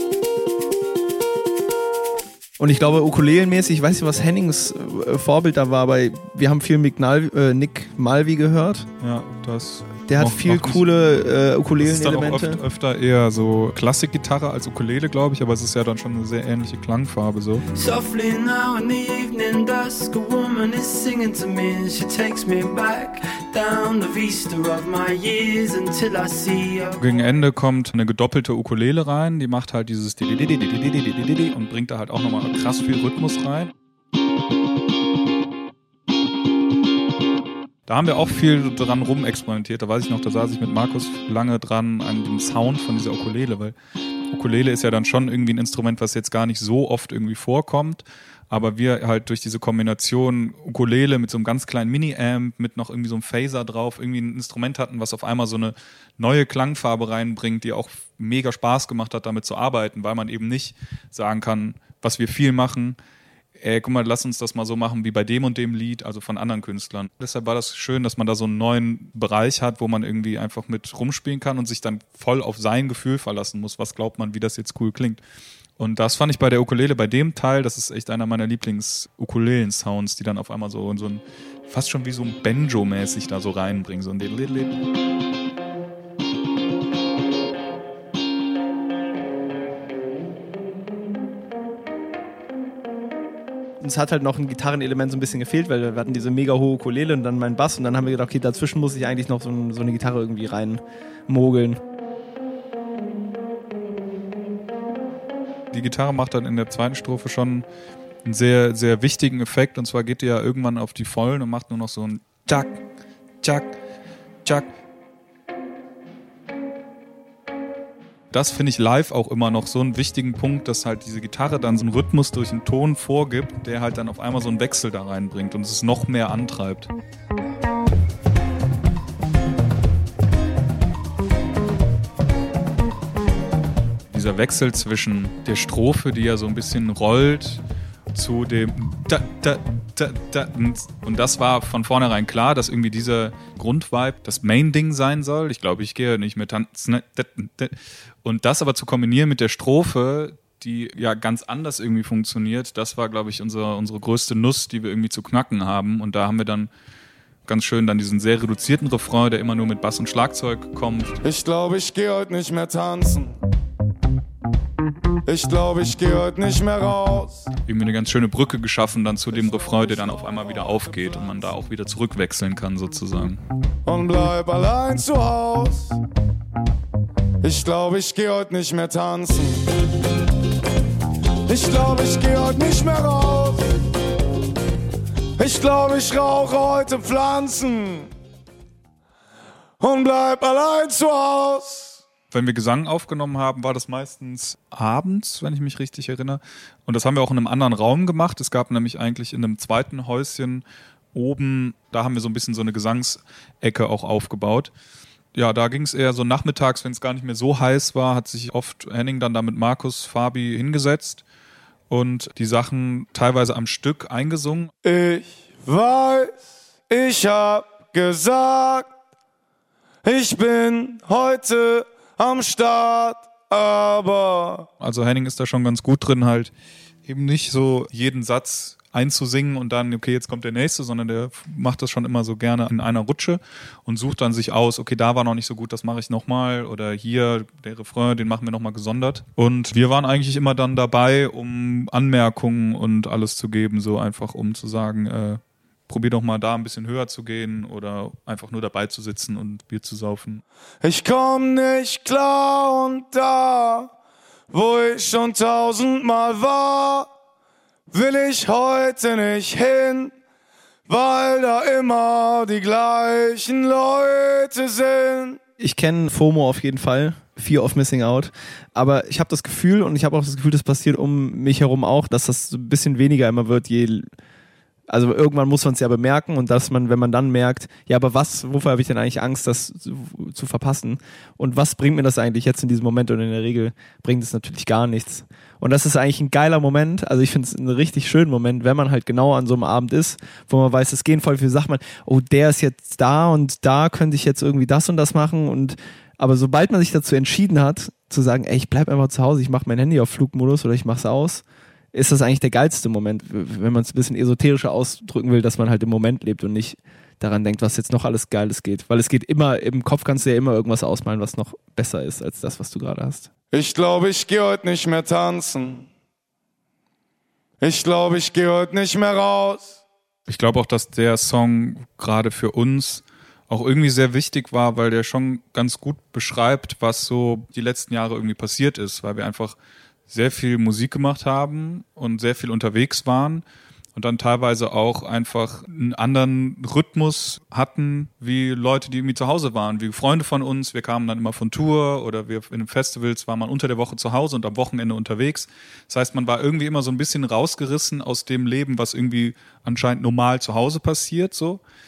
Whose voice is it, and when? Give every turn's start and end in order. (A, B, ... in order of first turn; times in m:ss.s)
0:02.6-0:08.9 A
0:09.0-0:10.9 B
0:10.1-0:12.6 A
0:11.8-0:17.6 B
0:17.7-0:27.1 C
0:27.0-0:33.7 B
0:37.9-0:43.8 B
0:44.3-1:03.0 B
1:03.6-1:15.2 B
1:15.8-1:24.8 B
1:33.8-1:41.8 A
1:45.7-1:47.7 B
1:48.2-1:52.8 B
1:53.4-1:53.8 B
1:54.4-1:54.7 B
1:58.3-2:06.9 B
2:14.1-2:36.7 B
2:37.4-2:41.2 B
2:41.2-2:43.3 D
2:45.3-2:47.5 D
2:47.7-2:53.4 B
2:53.9-2:56.0 D
2:57.4-2:59.6 D
3:01.5-3:03.7 D
3:05.4-3:08.1 D
3:09.8-3:12.0 D
3:12.3-3:24.7 B
3:25.3-3:31.2 B
3:31.9-3:34.7 B
3:34.8-3:38.9 D
3:40.0-3:44.7 D
3:44.8-3:46.5 B
3:47.1-4:10.4 B
4:10.8-4:13.9 D
4:14.5-4:17.1 D
4:17.9-4:20.1 D
4:20.9-4:25.4 D
4:25.6-4:34.1 A
4:34.9-5:13.3 A
5:13.5-5:15.9 D
5:17.6-5:19.8 D
5:20.3-5:29.6 B
5:30.1-5:51.6 B